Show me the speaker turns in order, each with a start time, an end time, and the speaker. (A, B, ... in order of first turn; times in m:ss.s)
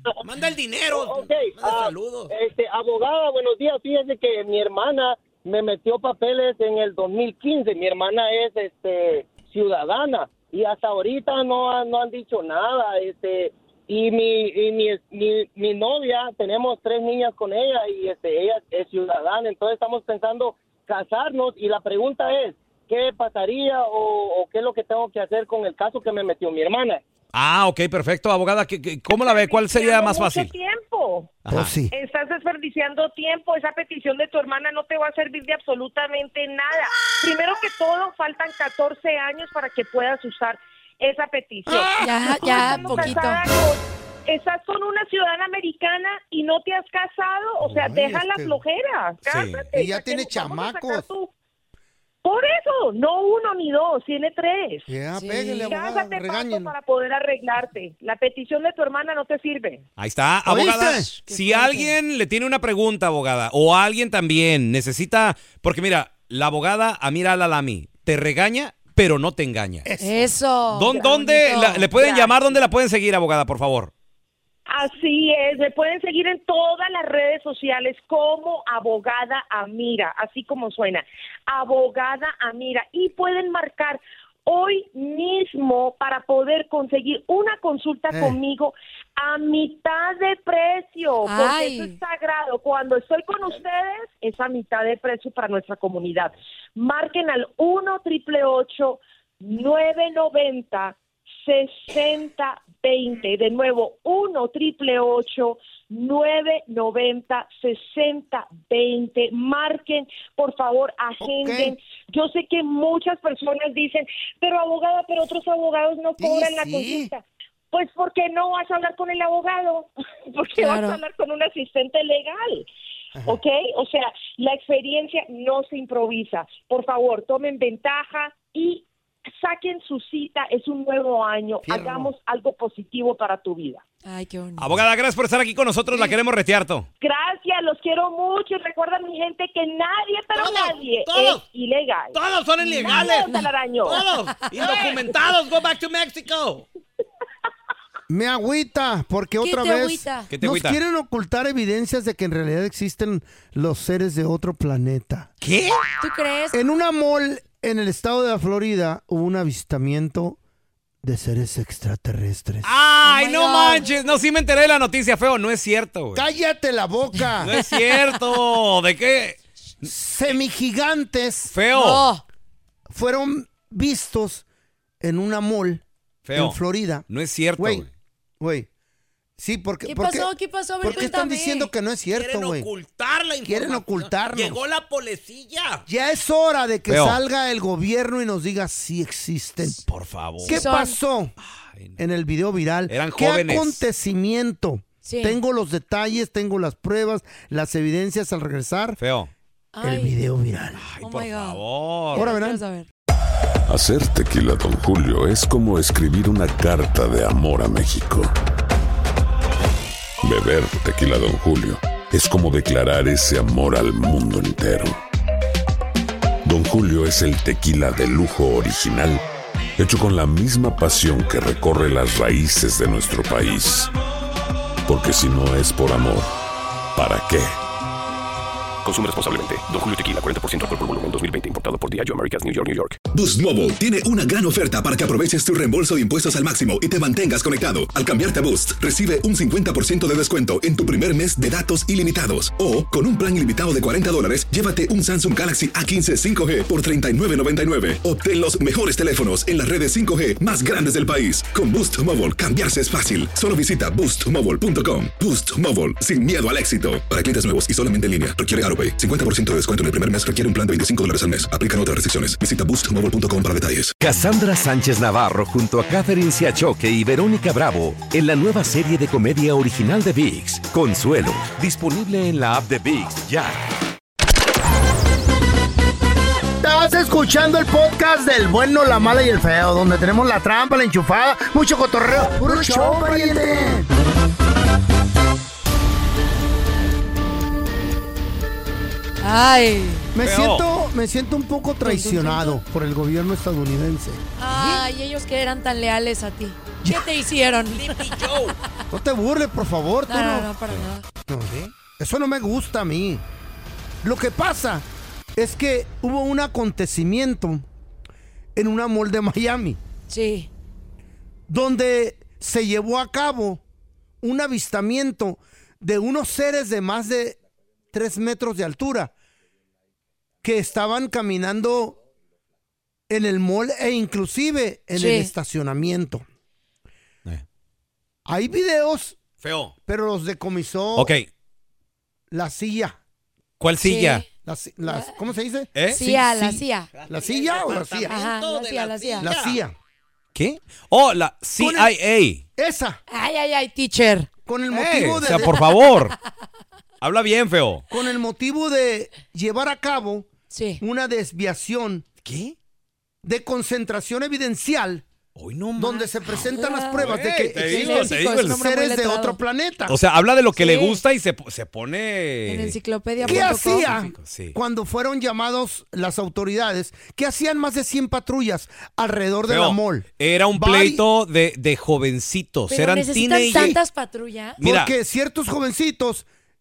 0:00.2-0:02.3 A
0:00.9-0:27.0 B
0:27.3-0:30.5 A
0:29.1-0:31.4 C
0:31.5-0:31.7 A
0:31.5-0:31.9 D
0:31.9-0:51.3 C
0:41.7-0:43.2 D
0:42.0-0:43.4 E
0:47.6-0:48.6 D
0:49.2-0:49.7 A
0:49.7-0:51.1 D
0:52.2-0:54.9 C
0:54.9-0:56.8 D
0:55.1-0:55.7 E
0:55.7-0:59.9 C
1:00.0-1:09.9 A
1:00.4-1:01.1 D
1:01.2-1:02.0 E
1:09.8-1:10.3 D
1:10.0-1:11.9 E
1:10.7-1:13.9 A
1:10.9-1:12.3 C
1:14.7-2:02.7 C
1:28.1-1:28.4 D
1:31.3-1:32.0 E
1:51.2-1:51.8 D
1:56.2-1:57.1 D
2:00.6-2:01.0 E
2:03.2-2:03.4 D
2:03.2-2:13.8 C
2:11.6-2:12.1 D
2:14.0-2:14.8 E
2:14.6-2:16.9 A
2:17.0-2:22.2 C
2:20.4-2:21.4 A
2:22.1-2:23.3 A
2:22.6-2:23.5 E
2:22.8-2:24.0 C
2:23.8-2:26.7 A
2:24.6-2:24.9 C
2:28.1-2:35.3 D
2:29.4-2:30.3 E
2:30.3-2:30.8 A
2:35.4-2:35.8 A
2:36.0-2:36.6 E
2:36.5-2:40.4 D
2:41.0-2:42.7 D
2:42.6-2:46.3 A
2:43.0-2:43.9 E
2:46.2-2:47.6 D
2:47.4-2:49.4 A
2:49.8-2:51.5 D
2:51.5-2:52.1 A
2:51.7-2:52.2 E
2:52.9-2:54.4 D
2:55.0-2:55.8 D
2:56.3-2:57.9 A
2:56.4-2:57.1 D
2:57.6-2:57.9 D
2:58.4-2:58.7 D
2:59.4-3:02.7 D
2:59.8-3:01.7 E
3:02.1-3:05.8 A
3:03.4-3:04.6 D
3:05.9-3:09.8 D
3:06.9-3:07.2 A
3:09.9-3:10.6 A
3:10.4-3:11.4 D
3:10.4-3:11.0 E
3:11.4-3:12.0 A
3:12.0-3:19.0 D
3:12.9-3:13.8 A
3:15.0-3:15.4 E
3:19.0-3:19.3 A
3:19.7-3:20.2 E
3:19.8-3:20.8 D
3:20.8-3:22.3 A
3:21.0-3:21.6 E
3:22.1-3:22.6 D
3:22.1-3:22.9 E
3:23.7-3:28.3 F
3:30.2-3:35.0 F
3:36.4-3:39.2 F
3:39.8-3:43.9 F
3:44.9-3:46.3 F
3:47.0-3:47.6 F
3:48.8-3:53.0 G
3:53.1-4:23.9 H
4:24.0-4:33.6 I
4:36.6-4:43.9 D
4:49.2-4:50.1 E
4:50.1-4:54.2 D
4:50.2-4:50.7 A
4:51.8-4:52.6 E
4:54.4-4:58.2 E
4:57.7-4:58.6 A
4:58.9-5:00.5 D
5:00.1-5:01.0 E
5:01.3-5:03.2 D
5:04.0-5:07.7 D
5:08.6-5:09.8 D
5:10.1-5:10.5 E
5:11.5-5:13.6 D
5:14.2-5:17.4 D
5:17.9-5:19.1 D
5:20.4-5:22.0 D
5:23.1-5:26.2 D
5:24.9-5:25.3 E
5:28.3-5:29.2 D
5:29.4-5:29.7 A
5:29.9-5:31.2 D
5:31.0-5:31.2 A
5:32.3-5:33.0 D
5:33.6-5:34.2 A
5:33.8-5:34.3 E
5:34.4-5:38.2 D
5:34.8-5:35.2 E
5:35.8-5:36.0 A
5:35.9-5:36.9 E
5:36.9-5:39.6 A
5:38.1-5:39.3 E
5:39.2-5:39.8 D
5:40.4-5:42.4 A
5:41.6-5:41.9 D
5:42.6-5:43.0 D
5:43.1-5:44.3 E
5:44.5-5:45.6 D
5:44.7-5:46.2 A
5:45.3-5:45.7 E
5:47.0-5:47.8 A
5:47.9-5:50.3 D
5:50.5-5:50.8 E
5:50.8-5:52.0 D
5:52.2-5:52.6 A
5:53.2-5:55.0 D
5:55.4-5:56.1 A
5:55.8-6:00.0 D
5:56.3-5:57.0 E
5:56.9-5:58.6 A
5:57.6-5:59.4 E
5:59.9-6:04.6 A
6:00.6-6:01.0 E
6:02.5-6:03.9 E
6:03.2-6:11.0 D
6:09.5-6:13.8 A
6:12.7-6:14.6 E
6:13.4-6:13.8 D
6:14.6-6:14.9 A
6:14.6-6:16.3 D